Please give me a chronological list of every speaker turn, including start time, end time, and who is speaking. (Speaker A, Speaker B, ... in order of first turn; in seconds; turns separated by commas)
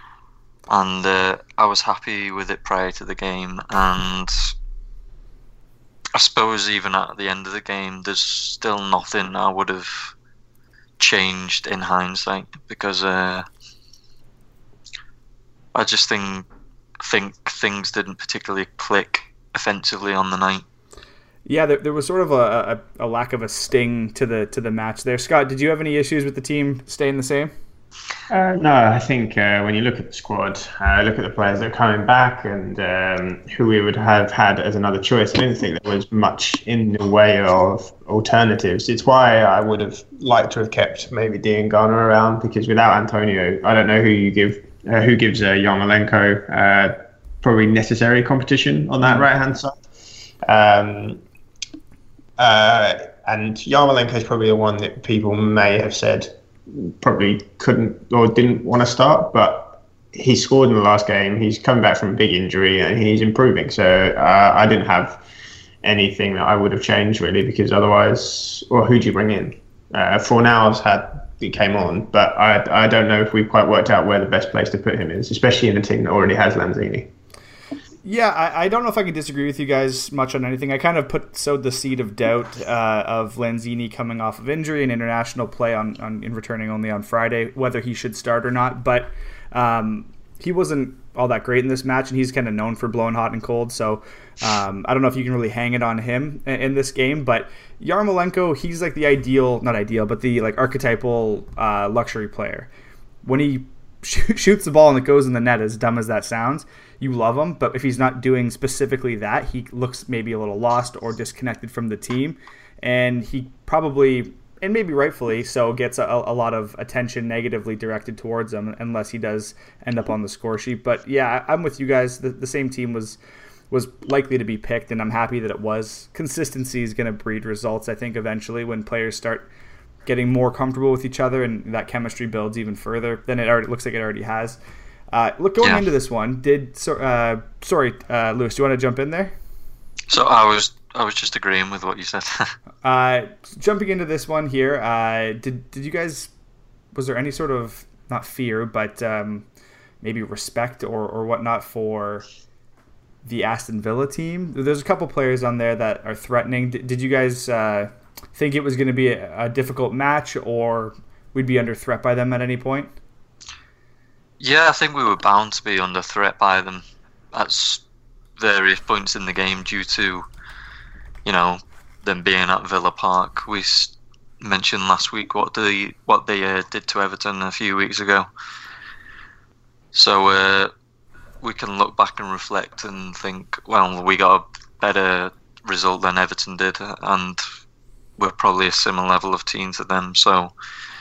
Speaker A: 0.7-4.5, Speaker A: 6.2-10.1, Speaker A: 11.0-13.4, Speaker A: 15.7-16.5, Speaker A: 17.0-20.6, Speaker B: 21.5-27.5, Speaker C: 28.3-49.8, Speaker B: 49.0-49.3, Speaker C: 50.5-51.2, Speaker C: 52.4-65.2, Speaker C: 65.8-77.1, Speaker B: 78.0-102.7, Speaker B: 103.2-123.2, Speaker B: 123.7-129.5, Speaker B: 130.1-134.6, Speaker B: 135.1-139.3, Speaker A: 140.1-142.5, Speaker B: 142.8-146.3, Speaker B: 146.9-149.5, Speaker B: 150.0-152.3, Speaker B: 153.2-162.9, Speaker A: 164.4-167.8, Speaker A: 168.4-170.3, Speaker A: 171.2-178.3, Speaker A: 179.9-180.7, Speaker A: 181.4-187.4, Speaker A: 188.2-190.5